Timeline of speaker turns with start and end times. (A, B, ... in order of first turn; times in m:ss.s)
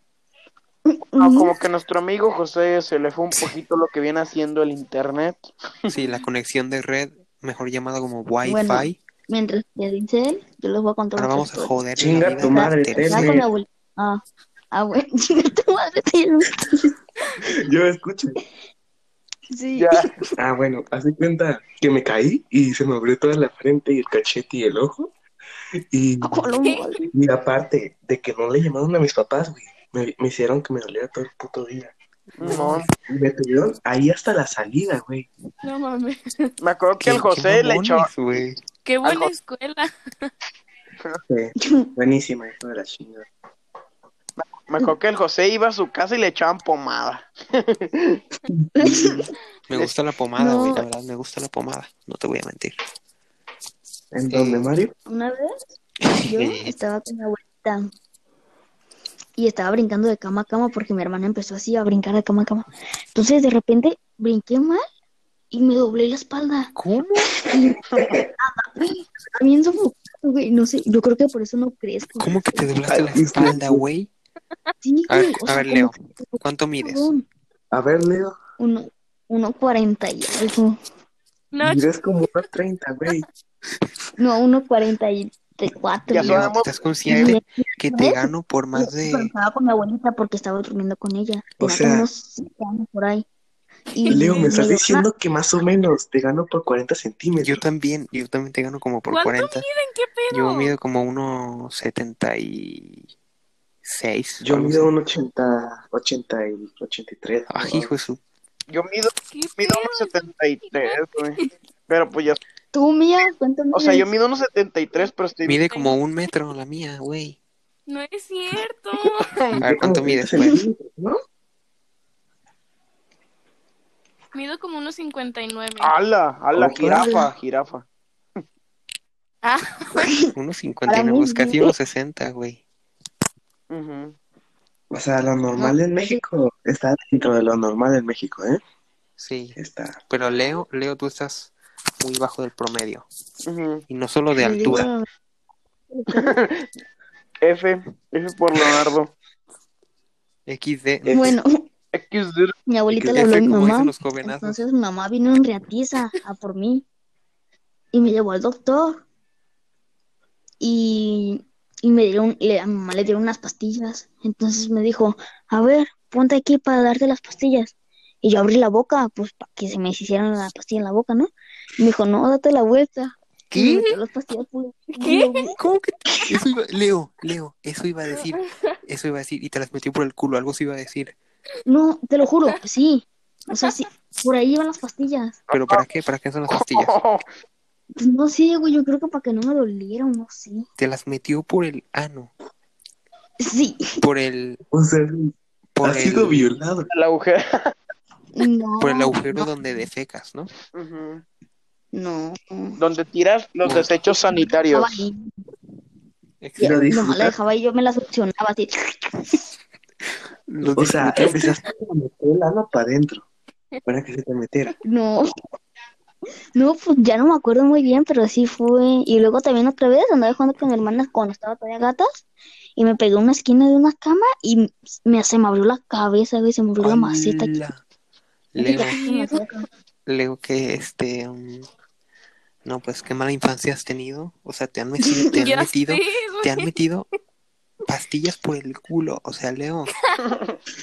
0:00.9-0:01.5 A
0:01.2-0:06.0 B
0:05.9-0:09.0 C
0:08.4-0:11.8 A
0:11.1-0:13.4 C
0:12.0-0:13.5 D
0:12.4-0:16.6 A
0:17.4-0:18.4 D
0:19.5-0:20.3 A
0:19.8-0:20.1 B
0:20.4-0:25.1 D
0:25.8-0:26.5 D
0:26.2-0:27.1 A
0:27.1-0:31.9 D
0:32.3-0:32.9 C
0:32.4-0:32.9 B
0:32.4-0:35.3 D
0:35.6-0:36.5 E
0:36.6-0:38.1 B
0:37.0-0:38.6 C
0:38.8-0:40.3 E
0:39.0-0:39.3 B
0:41.3-0:43.3 D
0:41.6-0:41.9 A
0:44.4-0:48.2 B
0:48.5-0:49.2 D
0:48.8-0:49.3 A
0:49.7-0:52.8 C
0:50.4-0:50.8 A
0:54.1-0:54.9 D
0:54.3-0:54.7 C
0:55.1-0:55.5 A
0:56.0-0:56.7 C
0:56.2-0:57.9 A
0:59.4-1:04.8 A
1:05.5-1:06.7 A
1:06.7-1:07.3 C
1:07.4-1:07.8 A
1:08.4-1:12.7 A
1:12.2-1:14.1 C
1:12.9-1:13.8 D
1:14.8-1:17.2 A
1:15.1-1:17.1 C
1:17.7-1:18.4 D
1:18.6-1:20.8 A
1:21.5-1:21.9 E
1:21.6-1:23.2 D
1:24.2-1:26.5 A
1:26.1-1:26.9 B
1:26.1-1:29.3 C
1:27.1-1:33.2 A
1:31.6-1:32.1 D
1:33.9-1:35.0 A
1:34.0-1:34.4 E
1:34.1-1:37.6 D
1:37.4-1:39.6 C
1:39.1-1:40.7 E
1:40.3-1:43.1 C
1:43.8-1:44.9 C
1:44.4-1:47.9 D
1:47.5-1:48.2 C
1:48.7-1:52.4 B
1:49.3-1:51.5 E
1:52.7-1:54.0 A
1:53.7-1:55.6 B
1:55.5-1:57.4 C
1:55.7-1:56.0 E
1:57.9-1:59.3 E
1:59.0-1:59.6 B
1:59.6-2:01.2 D
1:59.6-2:00.6 C
2:04.3-2:05.9 E
2:05.8-2:07.8 B
2:06.5-2:07.2 D
2:09.4-2:10.1 E
2:10.0-2:10.3 A
2:10.3-2:12.6 C
2:10.9-2:11.7 A
2:13.7-2:14.1 B
2:14.9-2:18.6 D
2:15.5-2:16.2 A
2:19.2-2:19.6 C
2:19.6-2:20.0 D
2:20.1-2:23.0 C
2:23.4-2:23.8 B
2:23.9-2:24.8 C
2:24.4-2:25.0 A
2:25.9-2:26.3 A
2:26.1-2:26.7 B
2:27.4-2:29.1 B
2:30.5-2:31.4 C
2:31.0-2:31.4 D
2:31.1-2:31.6 A
2:31.9-2:32.6 B
2:32.7-2:36.8 A
2:32.9-2:34.6 C
2:37.9-2:39.0 A
2:40.6-2:55.6 A
2:53.5-2:53.9 C
2:55.0-2:55.5 E
2:55.6-3:01.1 C
2:58.1-2:58.8 E
3:01.6-3:05.4 A
3:03.5-3:03.8 E
3:05.5-3:06.9 C
3:05.5-3:05.9 B
3:06.5-3:07.2 B
3:08.0-3:10.6 A
3:10.8-3:12.3 C
3:13.4-3:14.0 A
3:14.0-3:14.6 C
3:14.7-3:16.9 D
3:15.7-3:16.5 C
3:16.9-3:17.7 B
3:18.4-3:19.5 A
3:18.8-3:20.5 C
3:20.7-3:21.2 B
3:21.9-3:22.8 A
3:22.8-3:25.0 B
3:23.6-3:23.9 C
3:24.4-3:25.3 A
3:26.4-3:26.8 C
3:26.6-3:29.4 A
3:26.6-3:27.4 D
3:30.5-3:31.6 C
3:30.8-3:33.2 D
3:33.8-3:34.7 D
3:34.8-3:35.2 A
3:36.5-3:42.2 A
3:42.8-3:47.6 A
3:46.8-3:47.8 C
3:48.5-3:49.0 C
3:48.6-3:49.6 A
3:49.0-3:49.4 E
3:50.0-3:51.7 C
3:52.6-3:57.1 C
3:55.3-3:56.7 E
3:57.8-3:59.9 C
3:59.9-4:00.2 E
4:00.2-4:00.6 B